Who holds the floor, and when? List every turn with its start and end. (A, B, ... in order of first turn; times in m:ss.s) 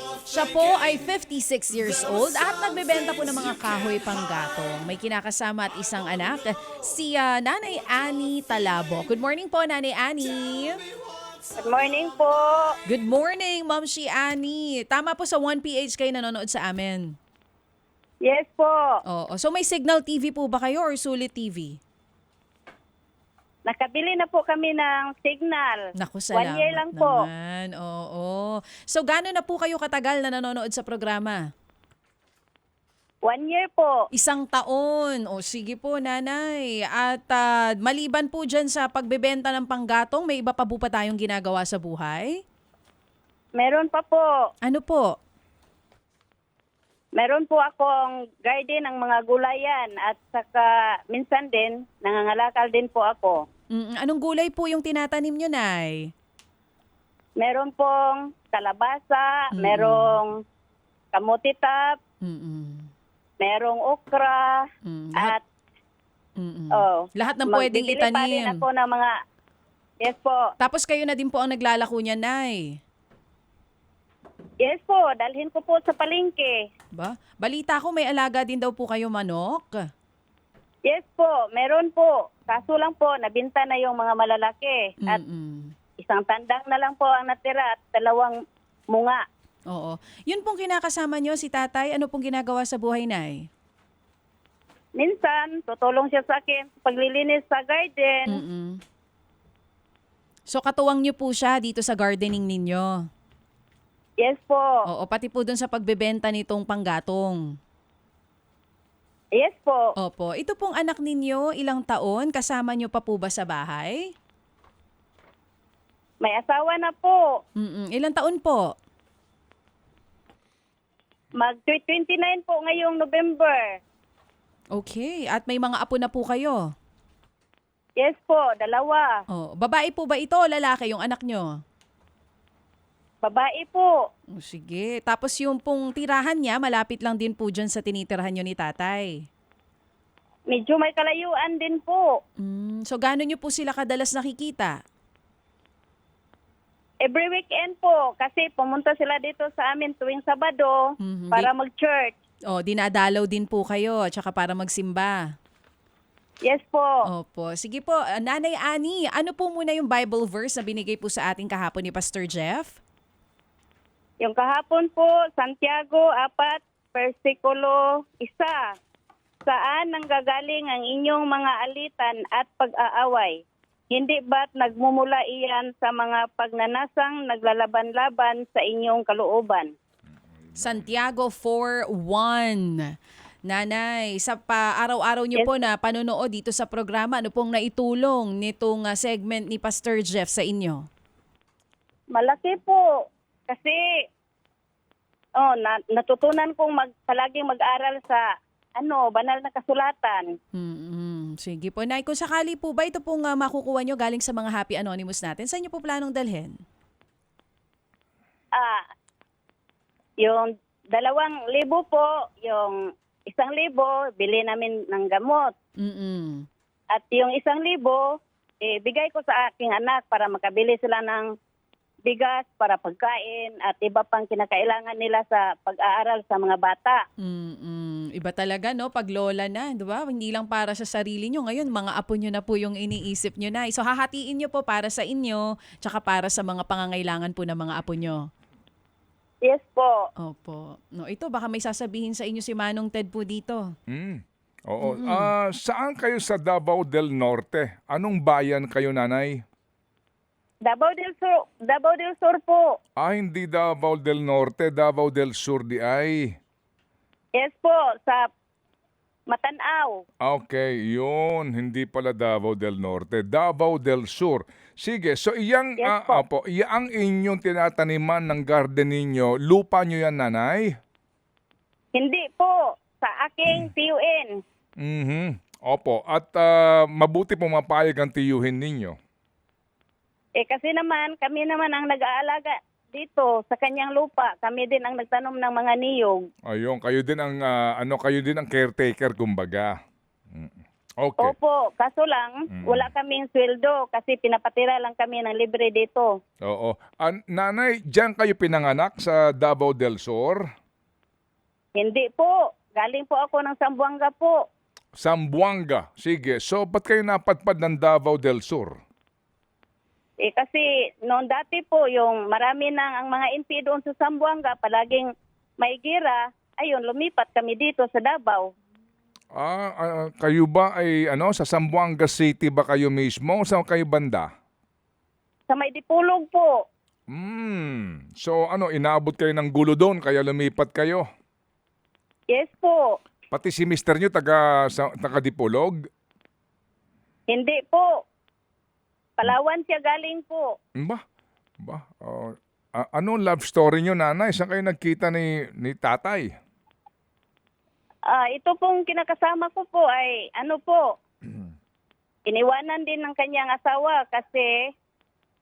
0:00.2-0:10.8 A
0:11.6-0:12.7 B
0:12.9-0:17.1 A
0:18.2-0:18.8 B
0:19.1-0:21.8 A
0:23.7-0:25.8 B
0:26.0-0:31.4 A
0:26.3-0:27.2 B
0:33.2-0:34.0 B
0:34.1-0:42.3 A
0:43.6-0:44.3 B
0:44.6-0:45.1 A
0:47.2-0:53.4 B
0:53.7-0:56.1 A
0:57.4-1:00.4 B
0:59.5-1:00.2 A
1:01.1-1:02.0 B
1:02.2-1:02.9 A
1:03.4-1:04.6 B
1:04.8-1:05.3 A
1:05.2-1:05.4 B
1:06.4-1:08.6 A
1:06.8-1:09.1 B
1:10.0-1:10.4 B
1:10.6-1:12.8 A
1:14.6-1:16.6 B
1:17.0-1:19.8 A
1:20.9-1:25.2 B
1:25.0-1:25.7 A
1:26.0-1:28.3 B
1:28.9-1:29.2 B
1:29.7-1:33.5 A
1:35.0-1:38.4 B
1:38.3-1:38.8 A
1:40.5-1:43.0 A
1:44.2-1:44.7 B
1:44.9-1:47.4 A
1:49.4-1:49.8 B
1:50.0-1:54.1 A
1:56.2-1:57.2 B
1:57.6-1:58.6 A
2:01.4-2:03.8 B
2:04.7-2:06.6 A
2:08.0-2:09.1 B
2:09.3-2:11.5 A
2:13.2-2:13.9 B
2:14.3-2:19.2 A
2:20.5-2:22.1 B
2:22.4-2:24.7 A
2:27.0-2:30.8 B
2:31.0-2:31.5 A
2:31.3-2:32.2 B
2:32.5-2:35.2 A
2:36.4-2:36.9 B
2:37.1-2:42.8 A
2:44.2-2:48.6 B
2:49.5-2:59.7 B
3:00.3-3:00.9 C
3:00.6-3:02.9 A
3:03.4-3:10.8 A
3:12.1-3:12.8 B
3:13.5-3:13.8 B
3:15.4-3:18.2 B
3:18.8-3:20.3 B
3:20.6-3:26.5 A
3:30.2-3:32.8 B
3:33.3-3:35.5 B
3:35.8-3:36.5 A
3:36.9-3:38.0 B
3:38.6-3:41.3 B
3:42.0-3:47.0 B
3:47.2-3:58.2 A
3:59.4-4:00.0 B
4:00.2-4:03.7 A
4:03.9-4:09.4 C
4:04.8-4:05.3 A
4:10.7-4:12.7 B
4:13.0-4:16.3 C
4:17.4-4:18.2 B
4:19.3-4:20.0 B
4:20.2-4:30.7 C
4:25.8-4:26.2 B
4:31.9-4:34.3 B
4:34.8-4:39.0 C
4:40.4-4:46.2 B
4:46.5-4:49.7 C
4:50.3-4:51.3 C
4:51.2-4:56.1 B
4:52.5-4:52.9 C
4:56.4-5:00.4 C
5:01.8-5:04.4 B
5:05.0-5:08.7 C
5:10.2-5:15.1 B
5:15.6-5:18.5 B
5:19.3-5:24.3 C
5:25.5-5:26.5 B
5:27.1-5:31.0 C
5:32.3-5:32.9 B
5:33.3-5:35.8 C
5:37.3-5:37.9 B
5:39.2-5:40.5 B
5:41.6-5:46.3 C
5:48.1-5:50.8 B
5:52.3-5:54.5 B